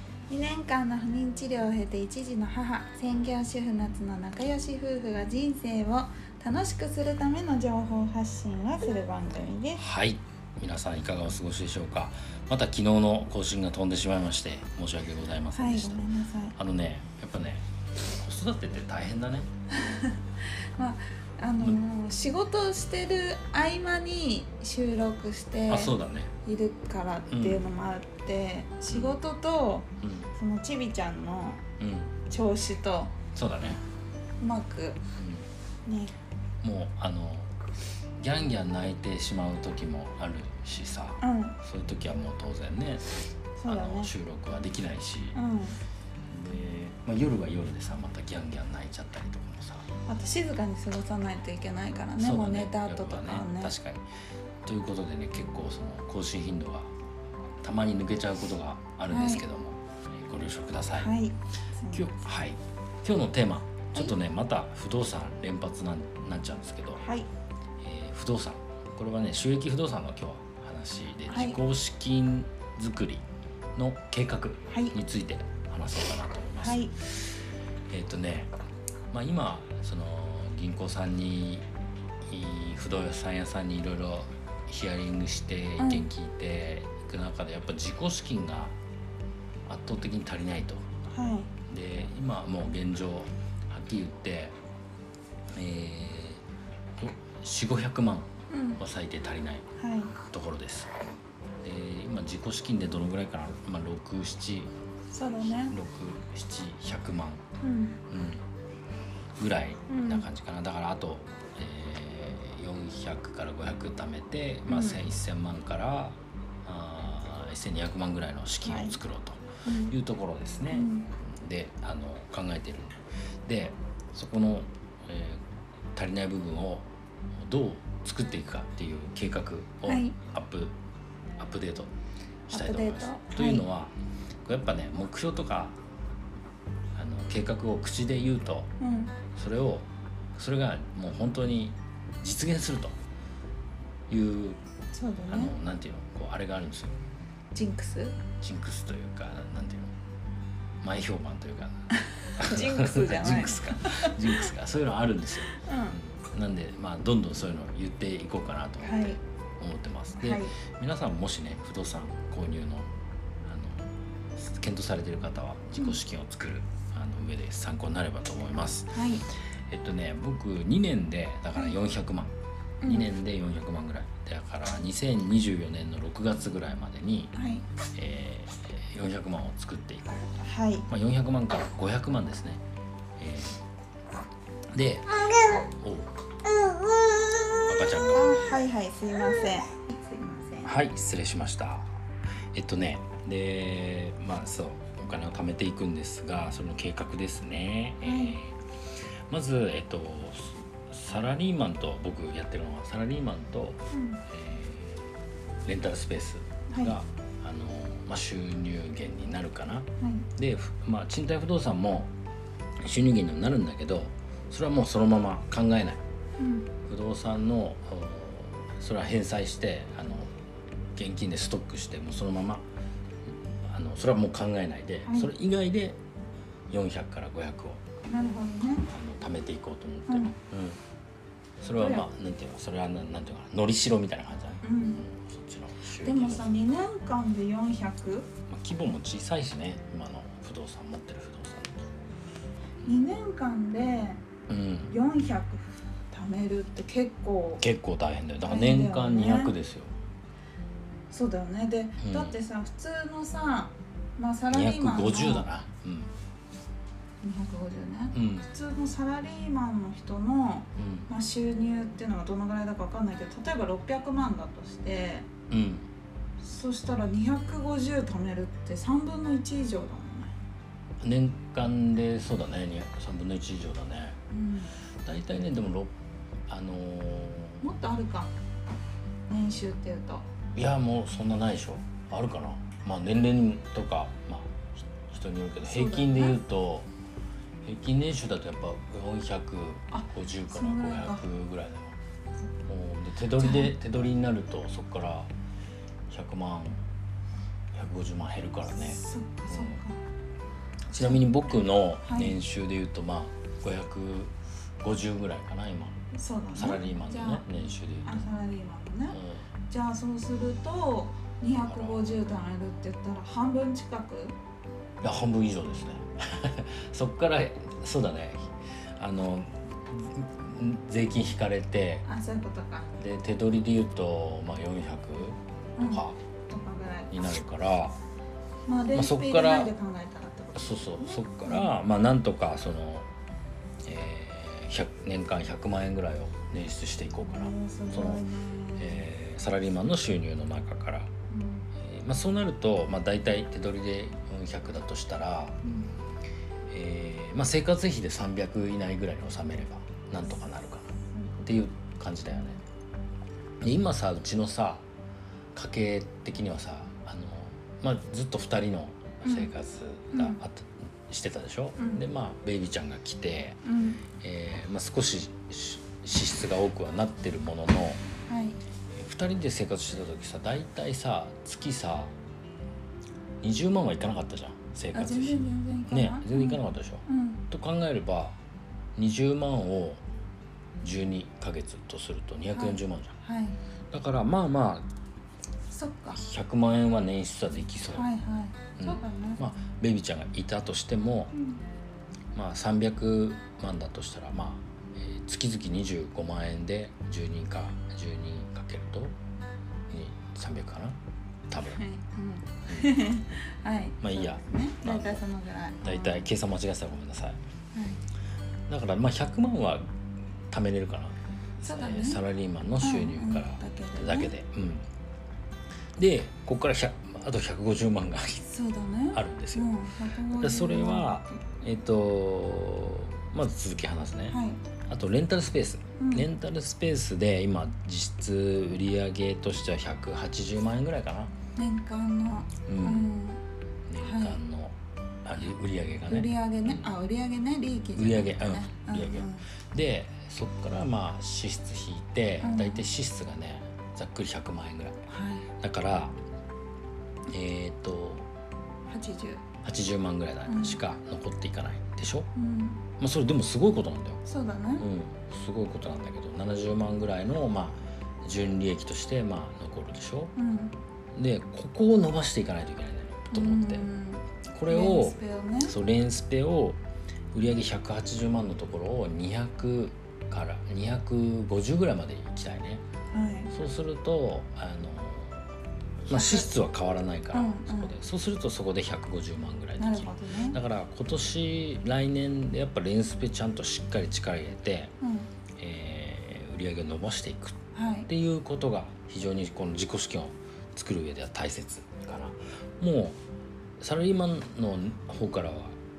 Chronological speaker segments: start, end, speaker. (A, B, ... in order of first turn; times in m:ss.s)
0:00.3-0:09.8 A
0:09.8-0:16.0 B
0:15.5-0:16.6 A
0:16.6-0:19.5 B
0:19.8-0:31.6 A
0:25.7-0:26.3 B
0:27.3-0:27.7 B
0:28.9-0:29.2 B
0:30.0-0:30.3 B
0:31.8-0:32.1 B
0:32.3-0:33.1 A
0:33.3-0:33.8 B
0:34.4-0:35.0 A
0:35.2-0:35.4 B
0:35.8-0:36.1 A
0:36.6-0:37.5 B
0:38.2-0:43.1 B
0:41.2-0:41.6 A
0:43.6-0:44.1 A
0:43.6-0:45.4 B
0:45.3-0:45.8 A
0:46.3-0:49.8 B
0:50.0-0:53.7 A
0:52.2-0:54.0 B
0:54.6-0:56.9 B
0:57.6-1:01.1 B
0:59.1-0:59.4 A
1:01.0-1:02.1 A
1:01.9-1:07.0 B
1:07.0-1:07.3 A
1:07.8-1:13.2 B
1:11.3-1:11.6 A
1:13.8-1:17.2 B
1:14.7-1:15.0 A
1:16.6-1:16.9 A
1:17.9-1:18.5 B
1:19.1-1:21.7 B
1:22.2-1:28.8 B
1:25.8-1:26.1 A
1:29.7-1:30.8 B
1:31.1-1:31.5 A
1:31.7-1:34.6 B
1:35.5-1:36.4 B
1:37.0-1:39.6 B
1:38.5-1:38.8 A
1:39.8-1:40.1 A
1:40.3-1:40.9 B
1:41.6-1:44.7 B
1:45.1-1:45.8 A
1:45.4-1:47.4 B
1:47.6-1:48.0 A
1:48.1-1:48.4 B
1:49.4-2:02.9 B
1:49.9-1:50.3 A
1:54.7-1:55.0 A
1:58.6-1:59.0 A
1:59.6-1:59.9 A
2:00.7-2:01.1 A
2:03.5-2:05.4 B
2:05.9-2:06.9 B
2:07.4-2:10.8 B
2:09.9-2:10.2 A
2:11.4-2:11.9 B
2:12.5-2:13.9 B
2:12.5-2:13.6 A
2:14.4-2:15.8 B
2:16.9-2:18.7 B
2:18.8-2:19.1 A
2:19.3-2:22.9 B
2:24.1-2:24.6 B
2:24.9-2:25.5 A
2:25.3-2:27.0 B
2:27.5-2:28.2 A
2:28.4-2:29.9 B
2:30.8-2:31.9 B
2:32.4-2:34.5 A
2:32.4-2:42.9 B
2:35.5-2:36.0 A
2:38.8-2:39.2 A
2:40.2-2:40.6 A
2:43.4-2:49.0 B
2:48.9-2:49.3 A
2:49.7-2:57.3 B
2:52.8-2:53.1 A
2:57.3-2:57.6 A
2:57.9-3:00.3 B
3:00.4-3:00.9 A
3:00.9-3:02.6 B
3:03.2-3:03.6 B
3:04.7-3:06.1 B
3:07.7-3:08.4 B
3:08.1-3:10.7 A
3:10.6-3:11.9 B
3:12.5-3:18.5 B
3:18.0-3:18.4 A
3:19.3-3:25.1 B
3:23.9-3:24.2 A
3:25.6-3:32.1 B
3:26.7-3:27.0 A
3:30.0-3:30.3 A
3:32.8-3:36.0 B
3:36.4-3:36.7 A
3:36.9-3:40.3 B
3:41.0-3:42.6 B
3:43.7-3:46.0 B
3:45.1-3:45.3 A
3:46.7-3:47.8 B
3:48.1-3:48.9 A
3:48.9-3:50.8 B
3:50.1-3:50.3 A
3:51.6-3:56.6 B
3:51.8-3:52.1 A
3:54.6-3:55.0 A
3:56.0-3:58.3 A
3:58.5-4:01.8 B
4:02.8-4:04.2 A
4:04.5-4:04.9 B
4:04.9-4:07.6 A
4:07.6-4:09.9 B
4:08.4-4:09.6 A
4:11.1-4:15.5 A
4:12.0-4:12.4 B
4:14.5-4:16.1 B
4:17.2-4:25.3 A
4:18.1-4:18.5 B
4:20.8-4:21.1 B
4:25.5-4:25.9 B
4:26.4-4:30.3 A
4:31.0-4:34.2 B
4:34.3-4:34.7 A
4:35.0-4:35.9 B
4:36.5-4:37.6 B
4:37.6-4:38.3 A
4:39.3-4:40.2 A
4:40.6-4:46.9 B
4:45.6-4:46.4 A
4:47.6-4:52.0 B
4:49.9-4:51.2 A
4:52.7-4:55.3 B
4:53.4-4:53.7 A
4:56.1-4:56.8 B
4:57.7-4:59.8 B
4:58.8-5:00.0 A
5:00.9-5:06.0 B
5:00.9-5:01.2 A
5:02.1-5:02.4 A
5:06.1-5:07.4 A
5:06.6-5:08.3 B
5:08.0-5:09.2 A
5:09.1-5:09.4 B
5:09.7-5:14.4 A
5:11.6-5:12.2 B
5:15.0-5:22.1 B
5:22.1-5:23.0 A
5:23.0-5:26.2 B
5:25.8-5:27.1 A
5:27.1-5:28.0 B
5:28.7-5:31.7 A
5:28.9-5:29.7 B
5:30.6-5:33.1 B
5:33.8-5:38.2 B
5:37.2-5:39.0 A
5:38.8-5:41.1 B
5:41.3-5:41.7 A
5:41.8-5:45.6 B
5:45.6-5:45.9 A
5:46.7-5:50.9 B
5:51.0-5:51.5 A
5:51.4-5:52.6 B
5:53.6-5:54.8 B
5:55.5-6:03.6 B
5:59.2-5:59.5 A
6:00.1-6:00.4 A
6:01.8-6:02.0 A
6:03.6-6:04.0 A
6:04.2-6:08.0 B
6:08.2-6:08.6 A
6:08.9-6:12.1 B
6:13.4-6:18.4 B
6:14.9-6:17.4 A
6:19.0-6:20.0 B
6:20.8-6:23.2 B
6:22.5-6:23.6 A
6:23.9-6:24.9 B
6:25.7-6:26.2 A
6:26.1-6:28.1 B
6:27.9-6:29.4 A
6:28.8-6:31.3 B
6:31.3-6:31.6 A
6:32.3-6:39.1 B
6:39.9-6:41.0 B
6:41.5-6:41.8 B
6:41.7-6:46.2 A
6:42.7-6:42.9 B
6:44.0-6:45.2 B
6:45.8-6:47.4 B
6:47.7-6:48.0 A
6:48.7-6:49.8 B
6:50.5-6:54.9 B
6:51.6-6:52.2 A
6:52.8-6:54.3 A
6:56.0-6:58.4 B
6:58.4-7:01.3 A
6:59.1-6:59.8 B
7:00.3-7:04.4 B
7:04.3-7:04.6 A
7:04.9-7:11.3 B
7:06.0-7:06.3 A
7:11.6-7:13.4 A
7:12.7-7:13.1 B
7:13.9-7:16.9 B
7:14.0-7:14.4 A
7:16.1-7:19.4 A
7:18.0-7:25.0 B
7:22.4-7:22.8 A
7:25.1-7:25.5 A
7:25.6-7:26.2 B
7:27.3-7:28.3 B
7:28.9-7:29.4 A
7:29.6-7:32.3 B
7:30.4-7:30.8 A
7:32.4-7:32.8 A
7:33.0-7:34.2 B
7:34.2-7:34.9 A
7:34.8-7:40.3 B
7:40.4-7:40.8 A
7:41.1-7:43.9 B
7:43.3-7:45.7 A
7:44.5-7:46.8 B
7:47.3-7:52.8 B
7:53.1-7:53.5 A
7:53.5-7:55.5 B
7:56.0-8:04.9 B
7:56.1-7:56.5 A
7:57.3-7:57.9 A
7:59.8-8:00.6 A
8:05.0-8:05.3 A
8:05.6-8:13.2 B
8:07.7-8:08.1 A
8:13.8-8:15.8 B